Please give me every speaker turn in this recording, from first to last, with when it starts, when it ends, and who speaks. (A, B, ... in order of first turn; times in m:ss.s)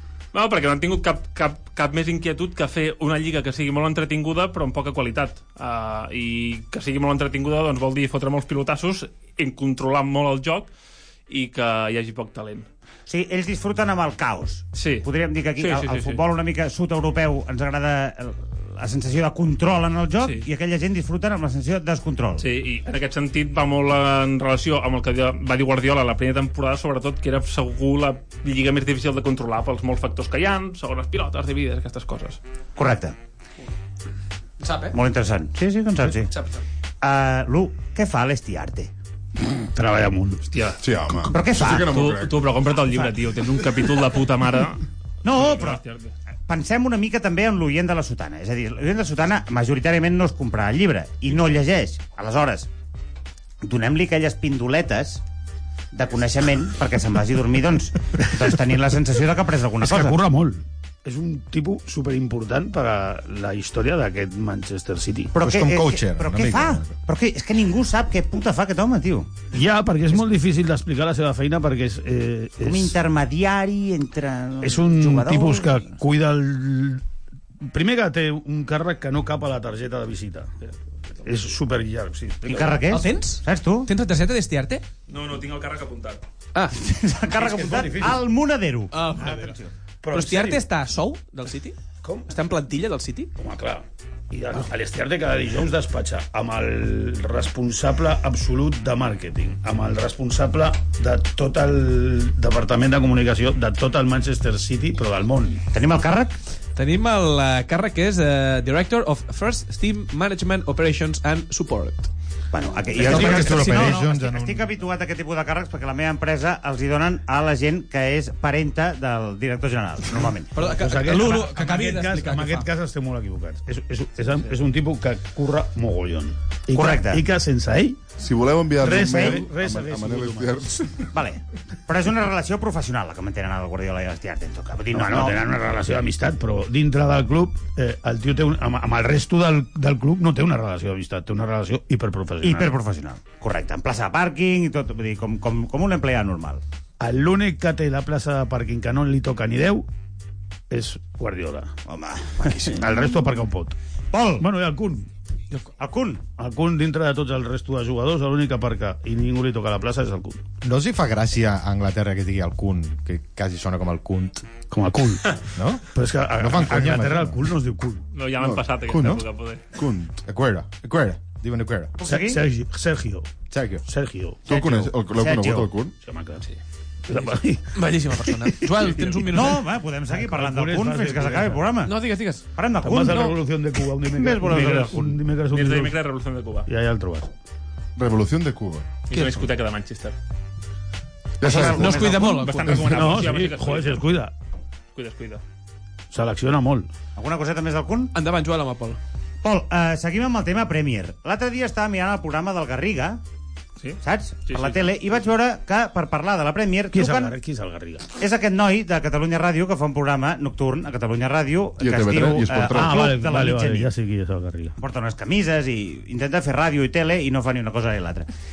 0:00.3-0:10.7 A
0:11.3-0:12.6 A
0:13.1-0:22.5 B
0:14.7-0:15.1 A
0:15.6-0:16.2 A
0:22.4-0:32.4 A
0:32.8-0:33.2 B
0:34.6-0:34.9 C
0:34.9-0:36.3 B
0:36.3-0:36.6 C
0:37.0-0:38.9 B
0:39.4-0:40.4 D
0:40.5-0:40.8 A
0:40.8-0:42.4 E
0:41.3-0:41.9 B
0:41.7-0:46.1 A
0:45.2-0:45.8 B
0:46.5-0:52.7 B
0:53.6-0:55.2 B
0:55.9-1:00.2 B
0:59.8-1:05.4 D
1:05.3-1:09.3 B
1:05.4-1:06.9 F
1:09.5-1:12.9 D
1:12.6-1:15.9 B
1:14.6-1:17.0 D
1:17.6-1:20.5 D
1:21.2-1:22.8 D
1:22.4-1:23.9 B
1:22.9-1:24.8 C
1:25.1-1:26.2 A
1:26.8-1:29.7 B
1:27.3-1:28.2 D
1:28.9-1:29.5 C
1:30.0-1:30.6 D
1:30.1-1:33.3 C
1:32.0-1:32.3 D
1:33.4-1:45.6 D
1:45.7-1:46.4 B
1:46.8-1:52.1 C
1:52.5-2:00.5 B
1:53.0-1:54.7 F
1:53.0-1:53.8 D
2:00.5-2:02.7 C
2:00.6-2:08.1 D
2:06.7-2:07.2 B
2:08.2-2:11.0 E
2:08.8-2:10.7 D
2:08.9-2:09.4 B
2:11.1-2:15.4 B
2:14.9-2:22.7 D
2:22.4-2:26.6 B
2:27.0-2:29.9 D
2:30.7-2:31.7 D
2:31.9-2:32.8 B
2:32.5-2:33.8 D
2:34.1-2:34.5 B
2:34.4-2:35.1 D
2:35.8-2:36.2 B
2:36.4-2:40.4 D
2:40.6-2:44.4 F
2:44.7-2:45.4 D
2:45.5-2:45.8 F
2:45.9-2:48.0 D
2:46.4-2:47.4 F
2:48.1-2:49.6 A
2:48.4-2:49.0 E
2:48.9-2:49.2 F
2:49.8-2:51.9 F
2:52.0-2:52.4 B
2:52.0-2:53.3 D
2:53.5-2:53.8 F
2:53.8-2:54.9 D
2:54.4-2:55.9 E
2:55.1-2:55.7 B
2:56.0-2:56.5 D
2:57.1-2:59.2 D
2:57.7-2:59.6 C
2:59.3-3:01.9 B
3:00.1-3:01.6 D
3:01.8-3:02.4 C
3:02.5-3:03.4 B
3:02.8-3:06.0 D
3:04.1-3:05.2 B
3:05.5-3:06.7 A
3:06.7-3:07.3 D
3:08.0-3:09.0 E
3:09.1-3:10.2 A
3:11.4-3:12.1 E
3:11.5-3:12.3 B
3:11.5-3:13.1 C
3:12.1-3:14.0 A
3:12.7-3:14.3 D
3:14.9-3:15.4 A
3:16.1-3:16.9 D
3:17.2-3:18.1 B
3:18.1-3:19.0 C
3:19.4-3:23.2 B
3:23.8-3:24.9 A
3:24.0-3:27.4 B
3:26.9-3:28.1 D
3:28.2-3:33.9 B
3:31.8-3:33.0 E
3:32.4-3:34.8 D
3:34.8-3:38.3 B